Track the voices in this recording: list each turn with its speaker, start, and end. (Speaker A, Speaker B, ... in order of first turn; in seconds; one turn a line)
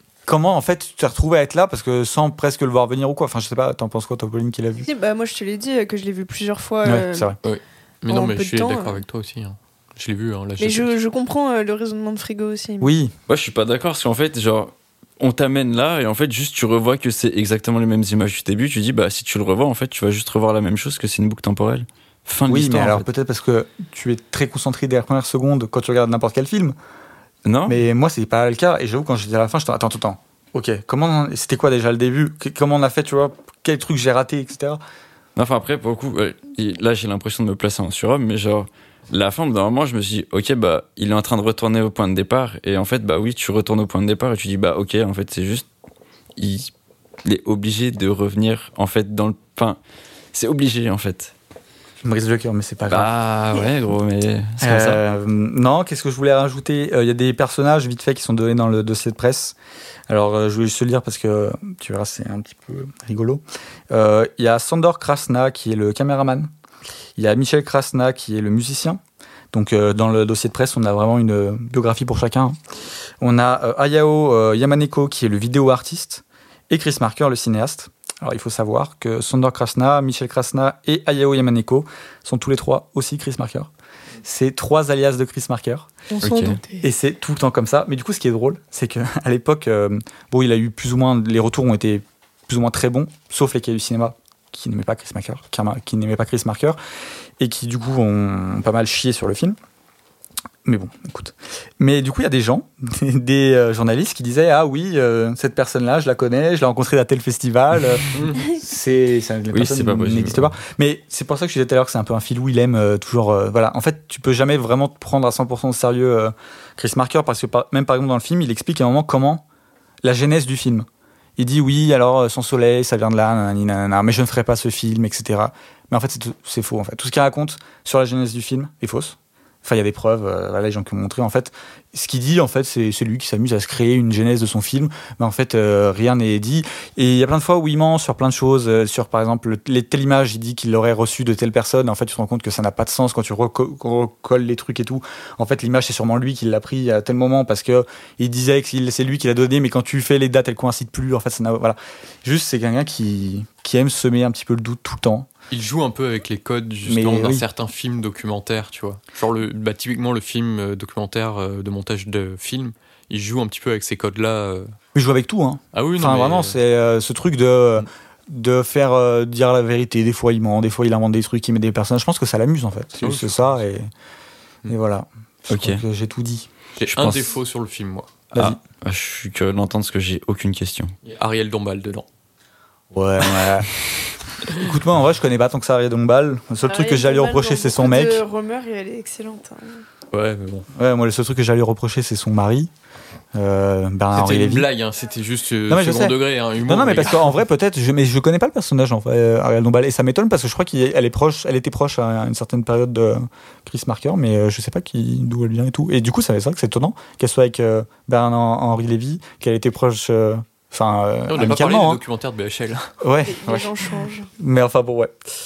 Speaker A: 0.3-4.9
Speaker B: 4.8-7.3
Speaker A: 6.8-7.4
Speaker C: 7.4-10.9
Speaker B: 8.1-9.0
Speaker B: 10.6-12.9
Speaker A: 12.8-13.1
Speaker D: 13.3-23.0
Speaker A: 22.5-26.8
Speaker D: 27.4-27.8
Speaker A: 27.6-34.8
Speaker D: 35.4-45.7
Speaker D: 46.4-46.7
Speaker D: 47.2-49.8
Speaker D: 50.3-51.3
Speaker A: 52.0-53.1
Speaker D: 52.9-55.0
Speaker A: 54.6-59.5
Speaker A: 60.1-66.5
Speaker A: 67.2-69.0
Speaker A: 69.5-72.6
Speaker A: 73.2-83.7
Speaker A: 84.2-85.9
Speaker B: 86.1-86.8
Speaker D: 86.2-86.6
Speaker A: 86.8-96.8
Speaker A: 97.4-99.5
Speaker A: 100.6-119.4
Speaker C: 108.1-108.4
Speaker D: 109.5-110.5
Speaker A: 120.0-155.3
Speaker C: 155.5-164.7
Speaker A: 156.8-157.4
Speaker A: 164.9-173.9
Speaker C: 165.7-166.6
Speaker C: 173.0-173.6
Speaker A: 174.7-176.5
Speaker D: 175.5-175.8
Speaker C: 176.8-178.1
Speaker D: 176.9-177.3
Speaker D: 178.3-180.9
Speaker C: 181.0-182.1
Speaker A: 182.9-183.7
Speaker A: 184.5-188.2
Speaker B: 186.7-189.8
Speaker C: 190.1-190.7
Speaker A: 190.7-192.7
Speaker A: 193.3-194.7
Speaker C: 194.1-197.3
Speaker A: 195.7-212.0
Speaker C: 211.3-212.9
Speaker A: 213.0-213.8
Speaker B: 213.2-214.3
Speaker A: 214.4-215.1